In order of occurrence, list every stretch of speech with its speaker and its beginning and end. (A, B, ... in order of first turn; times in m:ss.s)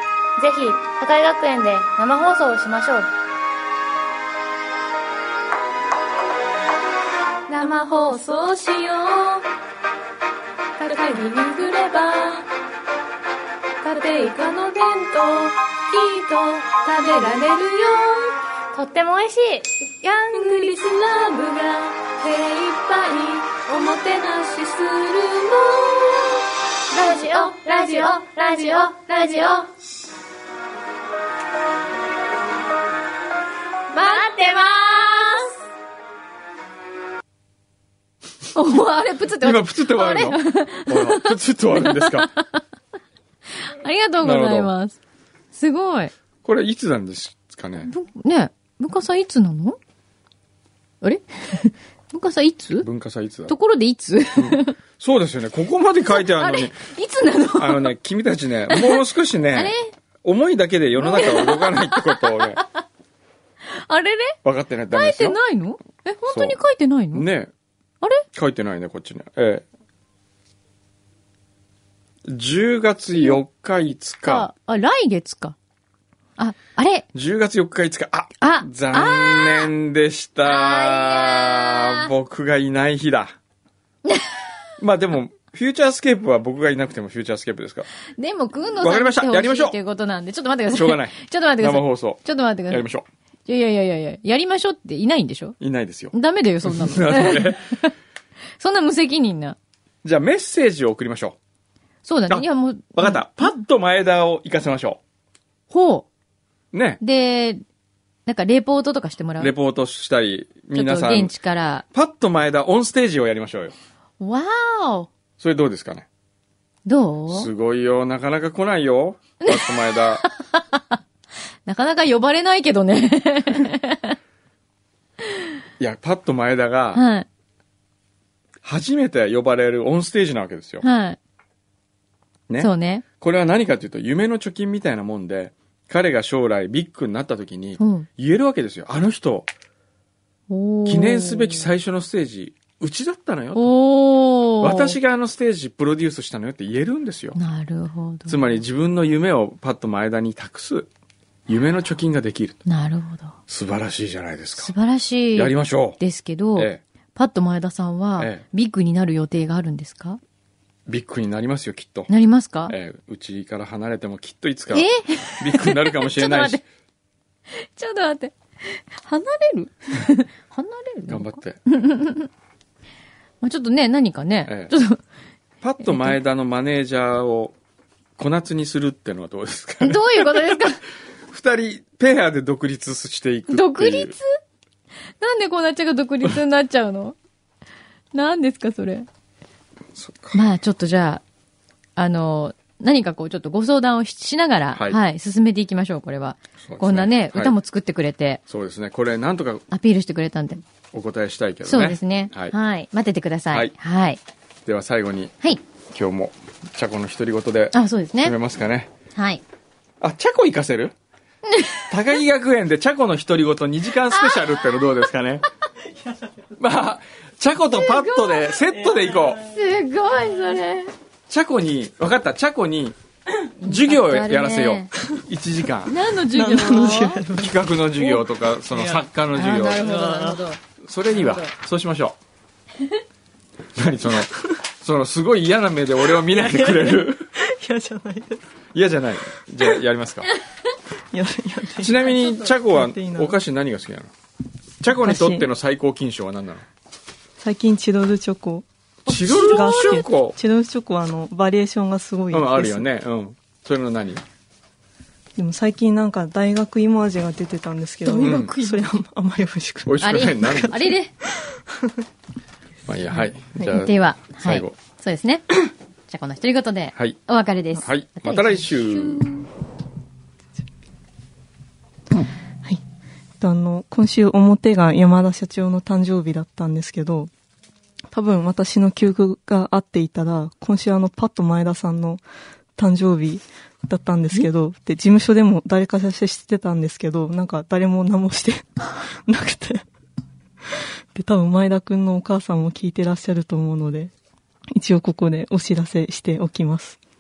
0:00.4-0:03.1 A
0:07.5-0:09.5 B
0:10.8-0:12.5 B
0:13.8-0:18.4 B
0:18.7-0:19.9 A
0:20.0-0:26.4 B
0:26.9-0:29.7 A
0:27.0-0:29.5 B
0:34.0-0:35.3 A
0:38.5-0:42.6 C
0:39.4-0:42.3 D
0:43.6-0:45.0 C
0:44.2-0:44.7 D
0:45.5-0:46.1 C
0:46.4-0:47.9 D
0:47.8-0:49.8 C
0:51.0-0:52.9 C
0:52.8-0:53.5 D
0:53.5-0:54.8 C
0:54.4-0:56.8 D
0:56.1-0:58.0 C
0:57.6-1:02.6 D
0:58.7-0:59.9 C
1:01.0-1:02.6 C
1:03.7-1:04.4 C
1:04.4-1:05.4 D
1:04.9-1:07.3 C
1:06.3-1:06.6 D
1:07.1-1:07.5 D
1:08.3-1:09.6 D
1:12.2-1:14.5 D
1:14.2-1:15.6 C
1:16.4-1:17.1 C
1:17.1-1:23.4 D
1:18.4-1:19.7 C
1:20.4-1:22.1 C
1:24.1-1:24.4 C
1:24.8-1:27.9 D
1:28.2-1:32.8 C
1:28.8-1:29.8 D
1:30.7-1:33.1 D
1:33.5-1:35.6 C
1:35.6-1:37.8 D
1:36.1-1:37.9 C
1:38.6-1:39.6 C
1:40.0-1:41.4 D
1:42.0-1:43.5 C
1:42.3-1:45.0 D
1:45.7-1:46.1 C
1:46.7-1:47.0 D
1:47.0-1:47.6 C
1:48.3-1:49.5 C
1:49.4-1:51.3 D
1:50.7-1:51.8 C
1:51.9-1:53.8 D
1:54.2-1:55.1 C
1:55.4-1:56.1 D
1:56.9-1:57.5 C
1:57.3-2:00.2 D
1:59.4-2:01.0 C
2:01.7-2:04.2 C
2:05.8-2:07.0 D
2:06.9-2:07.3 C
2:08.6-2:10.8 D
2:10.8-2:11.2 C
2:12.5-2:19.5 D
2:12.6-2:13.0 C
2:17.8-2:18.1 C
2:20.5-2:21.7 C
2:20.9-2:23.7 D
2:23.6-2:25.0 C
2:24.6-2:27.4 D
2:27.4-2:28.5 C
2:28.3-2:30.9 D
2:31.5-2:32.6 D
2:32.7-2:33.4 C
2:33.5-2:34.7 D
2:34.6-2:40.2 C
2:35.3-2:36.0 D
2:36.6-2:36.8 D
2:38.2-2:38.4 D
2:40.9-2:42.1 D
2:42.1-2:42.8 C
2:42.7-2:46.6 D
2:44.7-2:46.6 C
2:47.5-2:52.3 C
2:51.1-2:51.6 D
2:53.4-2:55.0 C
2:54.5-2:54.7 D
2:55.6-2:57.6 D
2:55.8-2:56.2 C
2:58.2-3:00.7 D
2:59.8-3:00.8 C
3:01.3-3:04.2 D
3:03.5-3:04.2 C
3:05.2-3:07.2 C
3:08.1-3:09.1 C
3:10.0-3:10.4 D
3:10.3-3:11.2 C
3:12.0-3:18.4 C
3:16.6-3:17.6 D
3:18.5-3:19.7 D
3:19.7-3:20.6 C
3:20.9-3:22.6 D
3:21.6-3:24.2 C
3:24.7-3:25.4 D
3:25.9-3:28.9 D
3:27.7-3:28.4 C
3:29.2-3:29.4 C
3:30.0-3:31.0 D
3:31.5-3:31.8 C
3:31.9-3:35.4 D
3:34.1-3:34.8 C
3:36.6-3:39.4 D
3:37.7-3:38.6 C
3:38.8-3:39.2 E
3:39.5-3:40.9 C
3:41.3-3:43.0 D
3:43.6-3:44.9 C
3:43.6-3:46.0 D
3:45.9-3:47.2 C
3:46.3-3:49.1 E
3:47.3-3:49.9 D
3:49.3-3:50.6 C
3:49.8-3:50.4 E
3:50.8-3:52.2 D
3:51.2-3:51.5 C
3:53.8-3:57.2 D
3:56.1-3:58.4 E
3:58.7-4:00.3 D
4:01.1-4:03.4 E
4:01.8-4:04.1 D
4:04.8-4:06.7 D
4:05.0-4:05.5 E
4:07.4-4:12.9 E
4:09.1-4:10.4 D
4:12.3-4:14.2 D
4:15.4-4:21.9 E
4:18.0-4:18.9 C
4:18.2-4:18.5 D
4:19.9-4:20.9 D
4:20.0-4:21.1 C
4:22.9-4:24.8 D
4:23.2-4:29.4 C
4:27.7-4:29.3 D
4:33.4-4:37.3 E
4:38.1-4:42.2 E
4:42.8-4:49.9 E
4:51.2-4:54.1 E
4:54.8-4:57.0 E